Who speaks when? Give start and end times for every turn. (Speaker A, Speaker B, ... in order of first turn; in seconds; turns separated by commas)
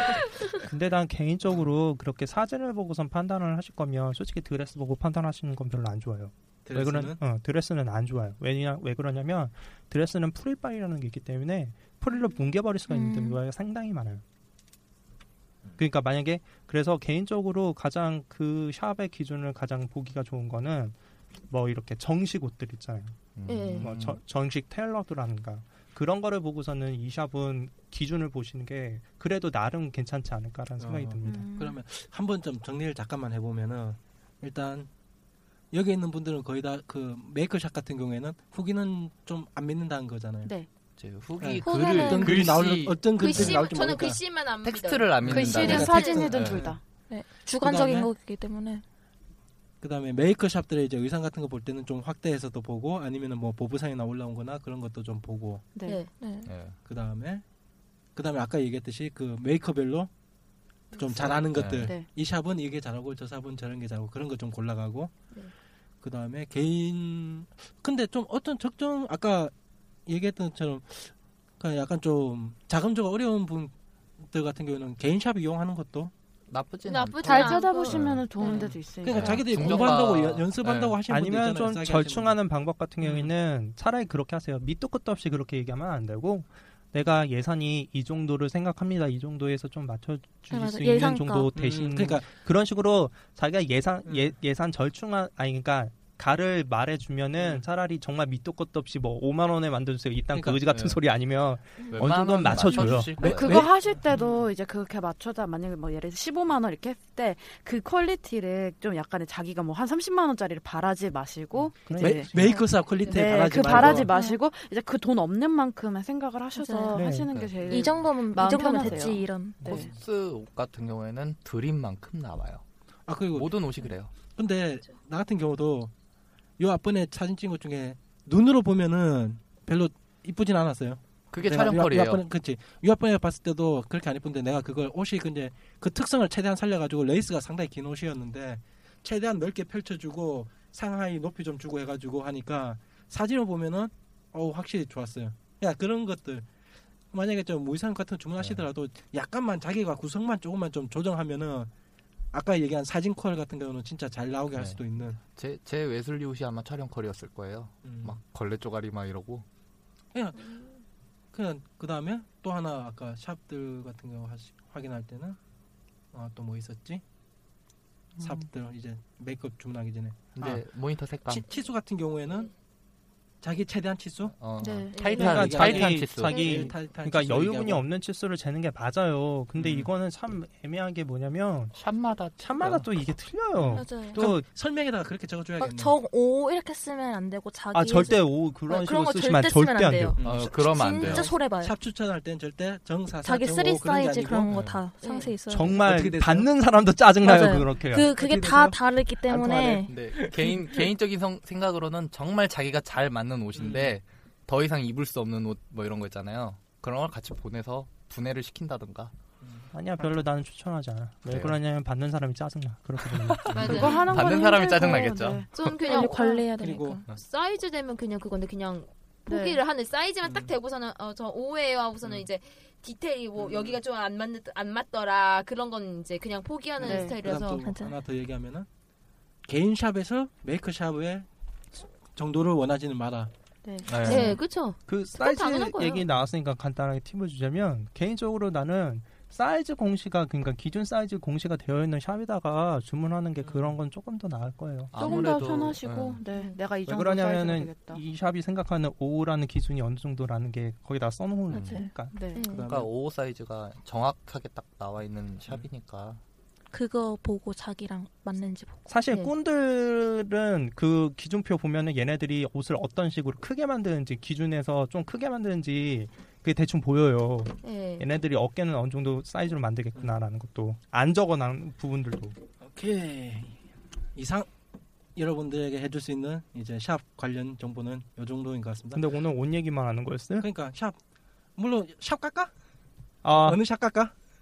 Speaker A: 0.6-14.2, Speaker B: 6.7-7.2, Speaker C: 12.9-13.4, Speaker A: 15.8-21.0, Speaker A: 21.5-23.2, Speaker D: 23.4-24.2, Speaker E: 23.5-23.9, Speaker A: 23.8-31.4, Speaker B: 30.8-34.9, Speaker C: 31.2-31.8, Speaker F: 31.3-31.6, Speaker B: 35.7-40.5, Speaker F: 40.4-40.7, Speaker D: 41.0-43.6, Speaker B: 41.4-44.2, Speaker C: 41.6-42.5, Speaker E: 43.2-46.3, Speaker D: 44.6-46.7, Speaker B: 45.2-46.8, Speaker F: 45.2-46.8, Speaker C: 47.1-48.8, Speaker B: 47.6-48.1, Speaker B: 49.8-55.6, Speaker F: 55.7-56.1, Speaker E: 55.8-56.1, Speaker C: 56.1-56.5, Speaker D: 56.5-56.8, Speaker B: 56.9-57.4, Speaker B: 58.1-60.1, Speaker B: 61.0-65.2, Speaker F: 61.0-62.1, Speaker D: 61.5-61.9, Speaker B: 66.0-69.5, Speaker B: 70.1-76.1, Speaker D: 76.5-78.3, Speaker E: 76.8-78.7, Speaker F: 77.2-80.1, Speaker B: 78.5-82.4, Speaker D: 79.0-81.0, Speaker A: 81.1-103.2, Speaker B: 83.0-83.3, Speaker C: 90.5-91.5, Speaker B: 91.5-92.3, Speaker B: 94.1-94.3, Speaker B: 97.4-97.7, Speaker B: 100.3-100.6, Speaker D: 100.7-101.0, Speaker D: 102.0-103.7, Speaker F: 103.2-119.9, Speaker B: 103.2-104.5, Speaker B: 111.6-114.1, Speaker A: 111.9-112.6, Speaker C: 113.6-114.4, Speaker C: 116.5-117.0, Speaker A: 117.0-117.4, Speaker C: 117.7-119.7, Speaker D: 119.7-122.6, Speaker B: 123.1-123.7, Speaker D: 123.3-124.1, Speaker B: 124.3-125.9, Speaker B: 126.6-146.5, Speaker D: 131.3-132.2, Speaker B: 147.1-151.7, Speaker B: 152.3-155.2, Speaker D: 154.5-159.5, Speaker B: 157.8-158.2, Speaker B: 160.1-160.7, Speaker B: 161.3-165.4, Speaker B: 166.1-167.0, Speaker B: 168.2-170.6, Speaker D: 170.4-171.5, Speaker B: 171.3-172.5, Speaker B: 173.4-174.4, Speaker D: 174.3-176.6, Speaker F: 174.6-175.4, Speaker A: 175.1-181.8, Speaker B: 175.1-177.8, Speaker C: 176.2-176.7, Speaker B: 179.6-179.9, Speaker D: 181.8-182.9, Speaker A: 182.4-184.5, Speaker B: 183.6-186.0, Speaker C: 183.8-184.3, Speaker C: 185.6-191.8, Speaker A: 187.7-190.2, Speaker B: 190.2-194.5, Speaker D: 190.2-191.3, Speaker C: 193.2-195.9, Speaker D: 194.5-194.8, Speaker E: 195.0-195.3, Speaker A: 195.5-198.1, Speaker B: 195.8-196.5, Speaker B: 197.2-197.5, Speaker C: 197.2-200.0, Speaker B: 198.1-200.8, Speaker D: 199.8-209.1, Speaker B: 203.5-203.9, Speaker B: 209.4-210.2, Speaker A: 209.7-213.9, Speaker D: 211.3-211.6, Speaker D: 213.2-215.5, Speaker B: 213.5-214.1, Speaker E: 213.5-214.1, Speaker F: 213.6-216.4, Speaker E: 215.5-216.5, Speaker C: 215.7-217.0, Speaker B: 216.6-217.0, Speaker E: 217.1-227.6, Speaker F: 219.3-219.6, Speaker B: 220.2-220.5, Speaker B: 223.4-223.8, Speaker B: 226.8-228.7, Speaker F: 226.8-227.2, Speaker C: 227.6-228.0, Speaker B: 229.5-233.3, Speaker F: 233.6-234.2, Speaker D: 233.8-234.4, Speaker E: 234.0-236.1, Speaker A: 234.9-245.0, Speaker B: 243.4-243.8, Speaker D: 244.9-246.2, Speaker F: 245.0-248.0, Speaker E: 246.3-246.6, Speaker A: 246.9-252.2, Speaker C: 251.6-252.7, Speaker F: 251.7-252.4, Speaker D: 252.5-256.2, Speaker B: 252.5-252.9, Speaker C: 256.7-258.9, Speaker A: 258.9-272.4, Speaker E: 267.6-268.1, Speaker B: 272.6-273.6, Speaker B: 274.1-274.5, Speaker B: 275.2-279.0, Speaker A: 278.9-280.5, Speaker B: 280.4-281.0, Speaker B: 281.6-282.5, Speaker A: 283.2-283.6, Speaker B: 283.3-284.1